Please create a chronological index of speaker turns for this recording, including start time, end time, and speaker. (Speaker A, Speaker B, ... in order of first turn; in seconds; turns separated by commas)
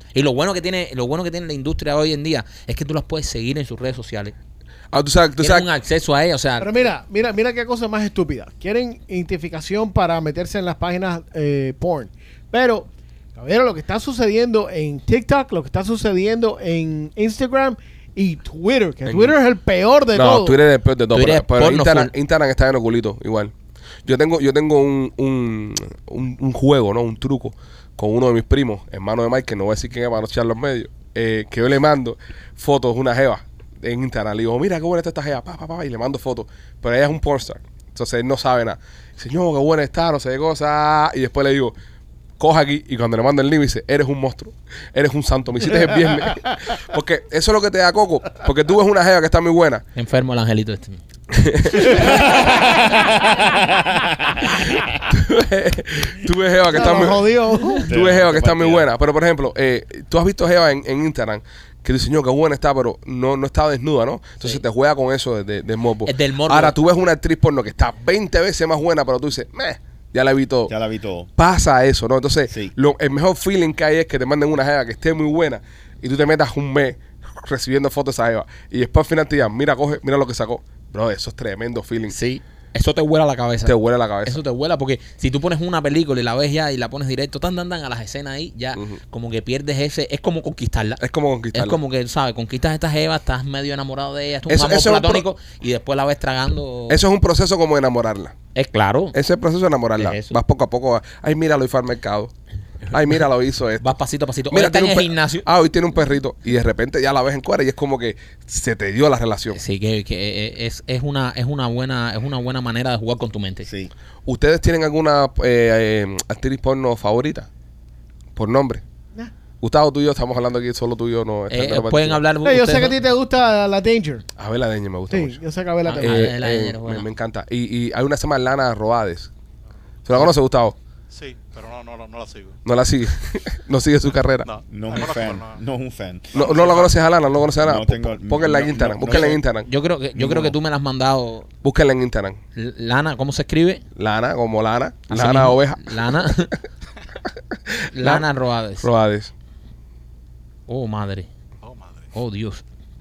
Speaker A: 0.1-4.3, Speaker B: 4.9-5.7, Speaker A: 5.4-6.8, Speaker C: 6.6-20.6, Speaker B: 19.1-19.4, Speaker B: 20.1-23.5, Speaker A: 21.1-22.1, Speaker B: 24.0-41.7, Speaker B: 42.4-49.8, Speaker A: 50.0-51.0, Speaker B: 51.3-52.4, Speaker A: 51.9-52.9, Speaker B: 55.1-57.3, Speaker C: 56.7-57.9, Speaker D: 57.8-58.9, Speaker B: 57.9-70.7, Speaker A: 66.0-66.8, Speaker D: 70.7-71.3, Speaker B: 71.4-82.2, Speaker A: 82.1-91.0, Speaker B: 83.6-84.4, Speaker B: 91.0-91.8, Speaker A: 91.5-97.0, Speaker B: 94.5-95.2, Speaker B: 96.9-98.3, Speaker A: 98.5-99.2, Speaker B: 99.1-102.3, Speaker A: 100.0-100.4, Speaker B: 102.9-103.8, Speaker A: 103.8-105.5, Speaker B: 104.5-109.6, Speaker A: 109.5-113.7, Speaker D: 113.6-113.9, Speaker B: 114.2-117.5, Speaker B: 118.3-118.8, Speaker B: 119.6-122.2, Speaker A: 121.5-122.9, Speaker C: 122.4-124.2, Speaker B: 124.4-125.4, Speaker C: 125.1-126.2, Speaker A: 125.8-127.1, Speaker B: 126.0-129.3, Speaker B: 130.1-130.8, Speaker E: 131.1-132.6, Speaker B: 132.6-134.5, Speaker E: 134.4-135.6, Speaker D: 134.7-136.4, Speaker E: 136.3-137.0, Speaker B: 136.3-139.7, Speaker D: 137.6-139.4, Speaker A: 139.6-141.5, Speaker D: 140.2-140.5, Speaker B: 141.6-142.4, Speaker A: 142.6-143.8, Speaker B: 143.9-146.0, Speaker A: 145.1-146.5, Speaker B: 147.9-148.2, Speaker A: 147.9-148.9, Speaker B: 148.8-149.3, Speaker A: 150.7-151.3, Speaker E: 151.6-152.1, Speaker A: 152.1-152.6